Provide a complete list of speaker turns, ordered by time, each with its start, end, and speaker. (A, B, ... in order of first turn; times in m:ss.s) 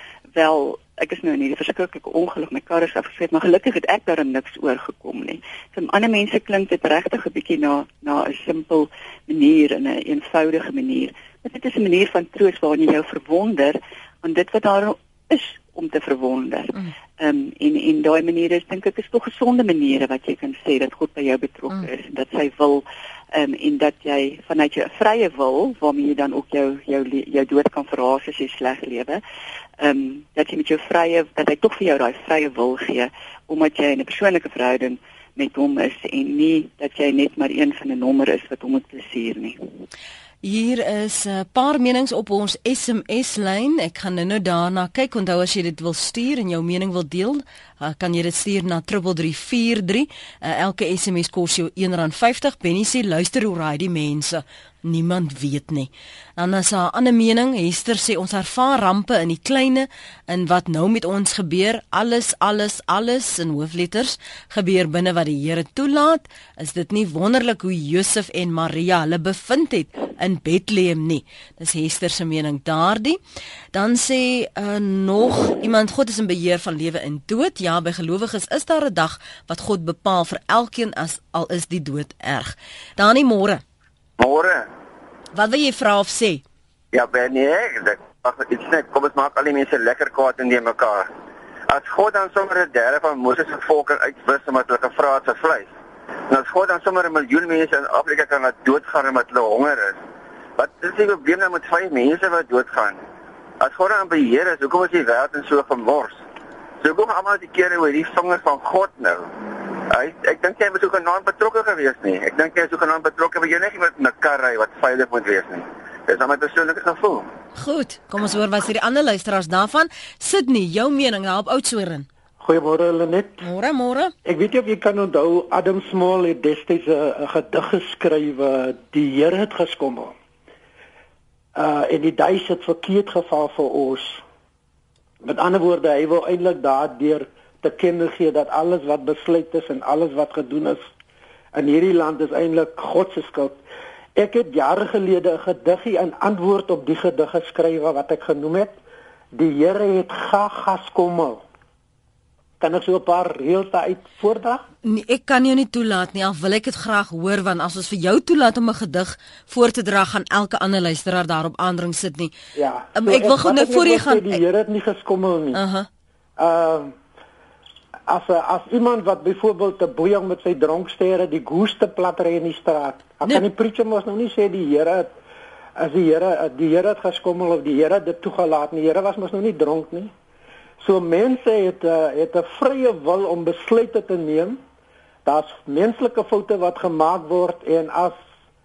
0:00.4-0:29.2 A
0:29.8-0:39.6 A
0:40.4-1:13.2 B
1:13.7-1:23.6 B
1:24.2-1:24.7 C
1:25.3-1:26.4 B
1:26.9-1:31.1 C
1:31.7-1:35.7 C
1:36.3-1:40.0 C
1:40.6-1:43.0 C
1:43.6-1:46.2 C
1:46.8-1:49.3 C
1:49.9-1:57.3 C
1:57.6-2:02.1 B
2:02.4-2:03.4 D
2:03.4-2:04.1 B
2:04.2-2:10.1 D
2:11.6-2:14.2 D
2:15.2-2:20.8 D
2:21.5-2:23.6 D
2:24.2-2:28.8 D
2:29.3-2:31.4 D
2:32.6-2:34.6 D
2:34.8-2:42.3 B
2:42.6-2:45.6 D
2:42.9-2:44.4 B
2:45.5-2:45.9 B
2:46.4-2:47.0 D
2:48.1-2:55.2 D
2:55.8-3:00.1 D
3:00.8-3:04.6 D
3:05.2-3:08.2 D